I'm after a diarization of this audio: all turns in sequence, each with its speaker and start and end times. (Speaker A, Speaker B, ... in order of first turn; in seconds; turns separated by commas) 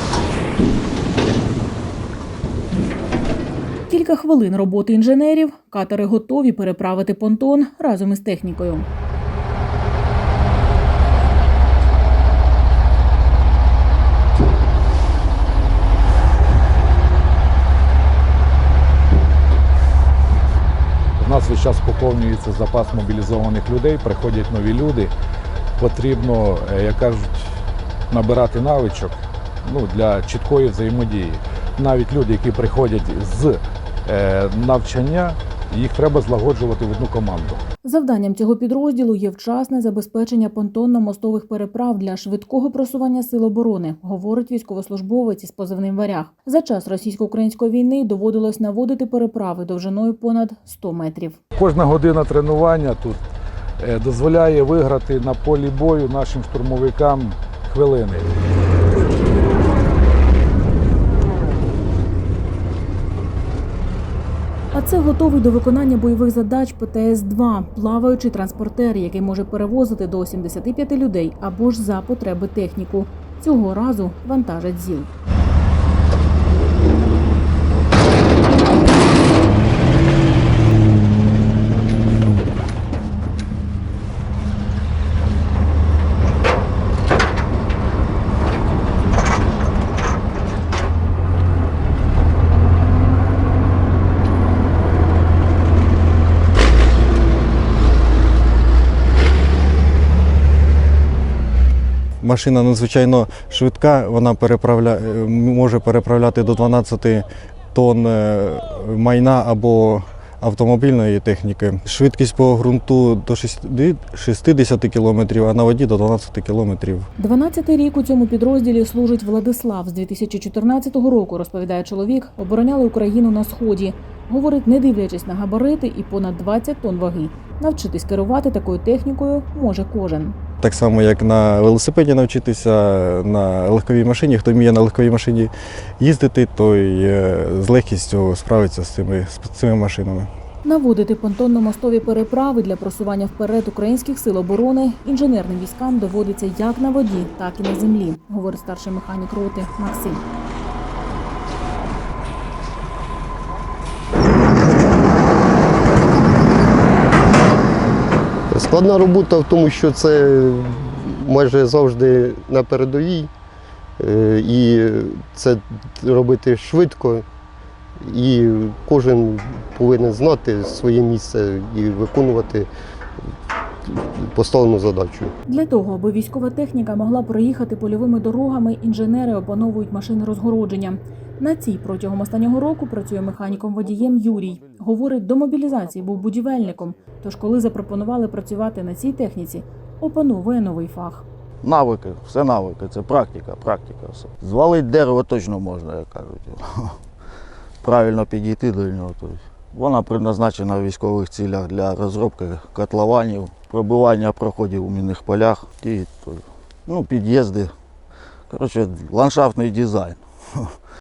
Speaker A: 3.9-8.9, Speaker B: 21.2-25.1, Speaker B: 25.8-27.6, Speaker B: 28.1-37.6, Speaker A: 37.8-51.4, Speaker B: 51.6-53.2, Speaker B: 53.8-58.3, Speaker A: 64.7-75.1, Speaker C: 102.2-117.1, Speaker A: 117.2-130.3, Speaker C: 130.6-140.3, Speaker A: 140.6-150.2, Speaker D: 158.5-163.3, Speaker D: 164.0-167.2, Speaker D: 168.0-172.7, Speaker D: 173.9-175.3, Speaker A: 175.5-191.2, Speaker E: 191.6-197.0, Speaker E: 197.8-207.7, Speaker E: 208.5-210.7